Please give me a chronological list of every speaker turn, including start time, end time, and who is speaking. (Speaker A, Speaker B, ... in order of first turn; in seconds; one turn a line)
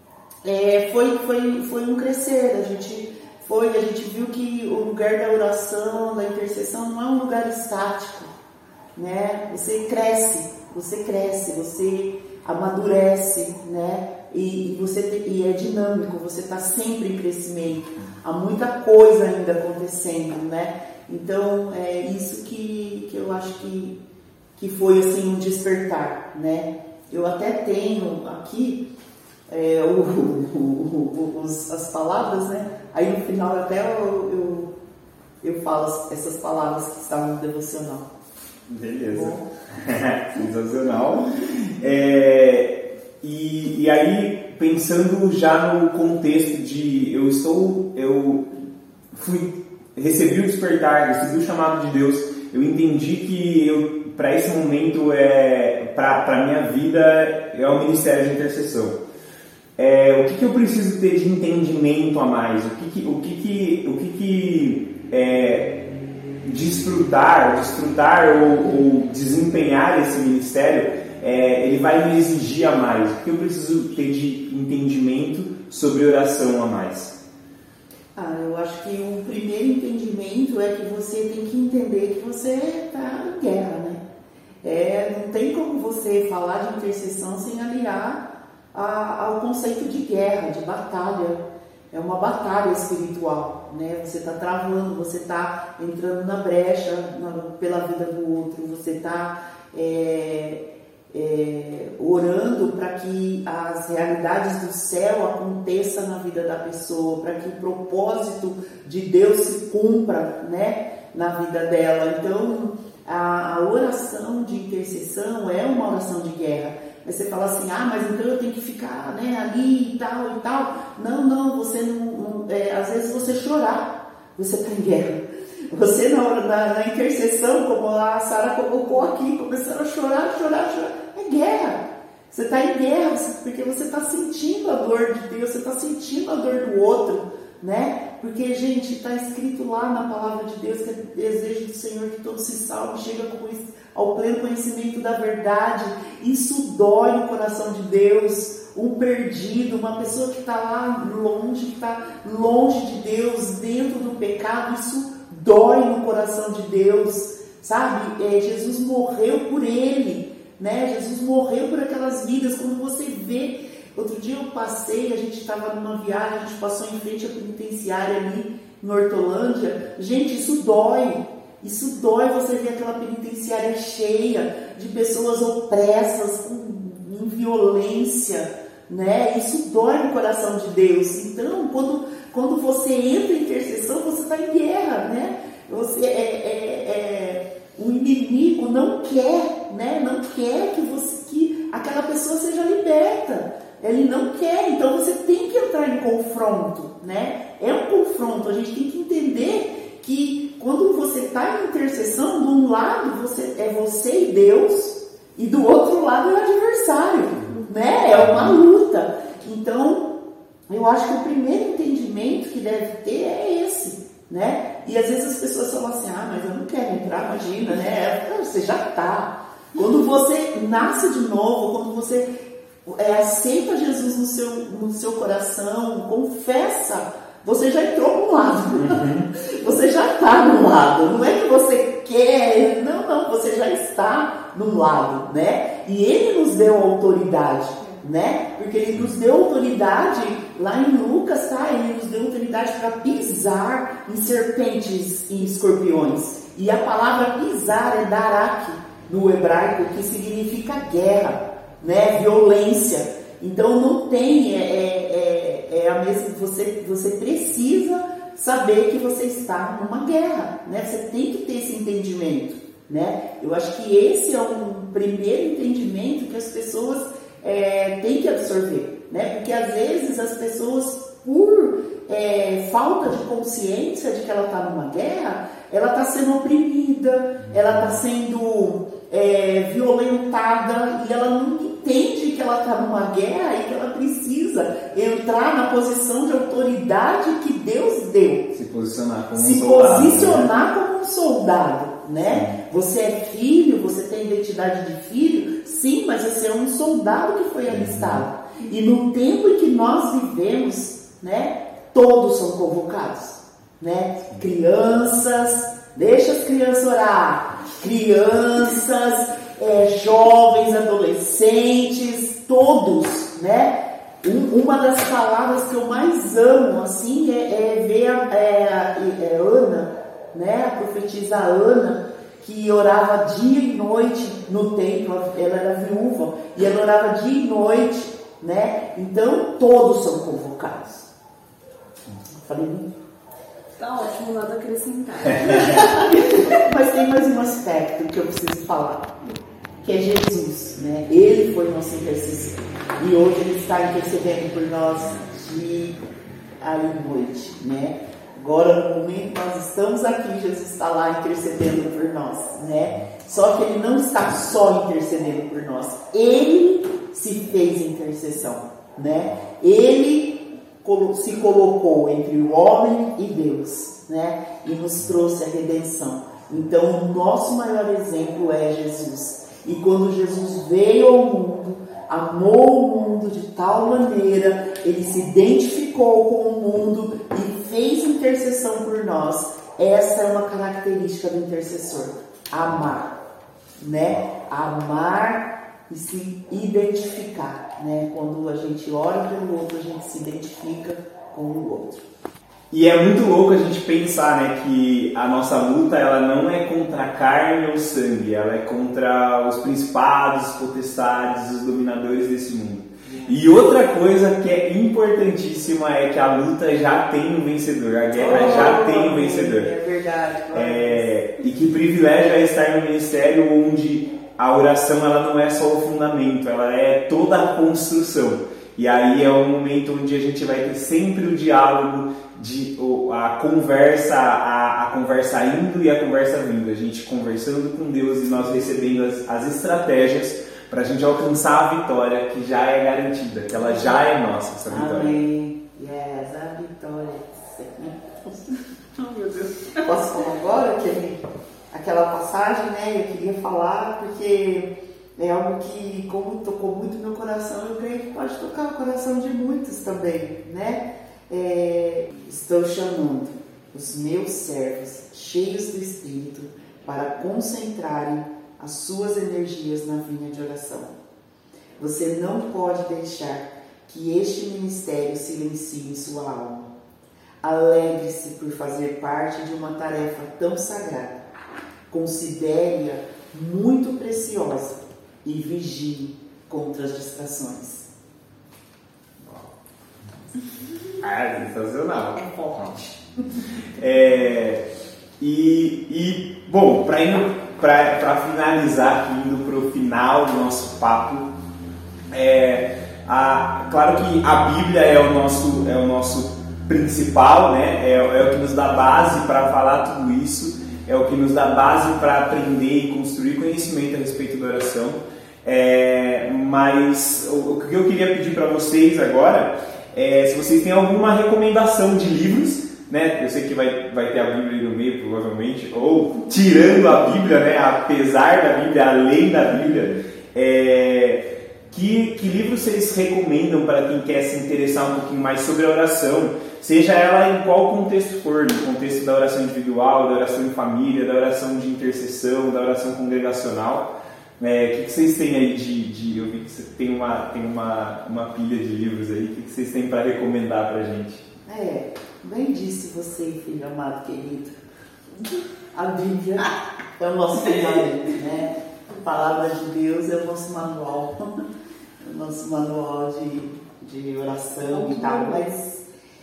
Speaker A: 0.4-8.3
Speaker A: 8.9-24.0
Speaker A: 24.6-28.8
Speaker A: 29.5-34.7
Speaker A: 35.4-38.1
Speaker B: 38.7-48.5
Speaker A: 39.1-39.4
Speaker B: 49.1-59.0
Speaker B: 59.8-65.7
Speaker B: 66.4-77.1
Speaker A: 78.1-84.0
Speaker A: 84.6-210.1
Speaker A: 210.7-222.3
Speaker A: 222.8-288.5
Speaker B: 228.7-229.3
Speaker B: 288.5-290.5
Speaker A: 289.3-331.1
Speaker B: 292.2-292.6
Speaker A: 332.3-332.9
Speaker C: 333.8-336.7
Speaker B: 335.2-335.8
Speaker A: 335.5-346.0
Speaker A: 346.6-383.1
Speaker A: 383.8-392.0
Speaker B: 392.7-409.7
Speaker A: 403.0-403.4
Speaker A: 408.1-411.1
Speaker B: 410.5-435.1
Speaker A: 434.7-438.5
Speaker C: 439.0-439.9
Speaker A: 439.8-441.2
Speaker A: 441.7-460.9
Speaker A: 461.8-466.7
Speaker A: 467.4-471.2
Speaker A: 471.9-477.9
Speaker B: 479.2-479.5
Speaker B: 481.0-482.9
Speaker B: 483.6-484.6
Speaker B: 485.2-491.2
Speaker B: 492.1-541.2
Speaker A: 541.5-544.6
Speaker A: 545.7-551.4
Speaker A: 552.0-555.8
Speaker C: 554.6-555.5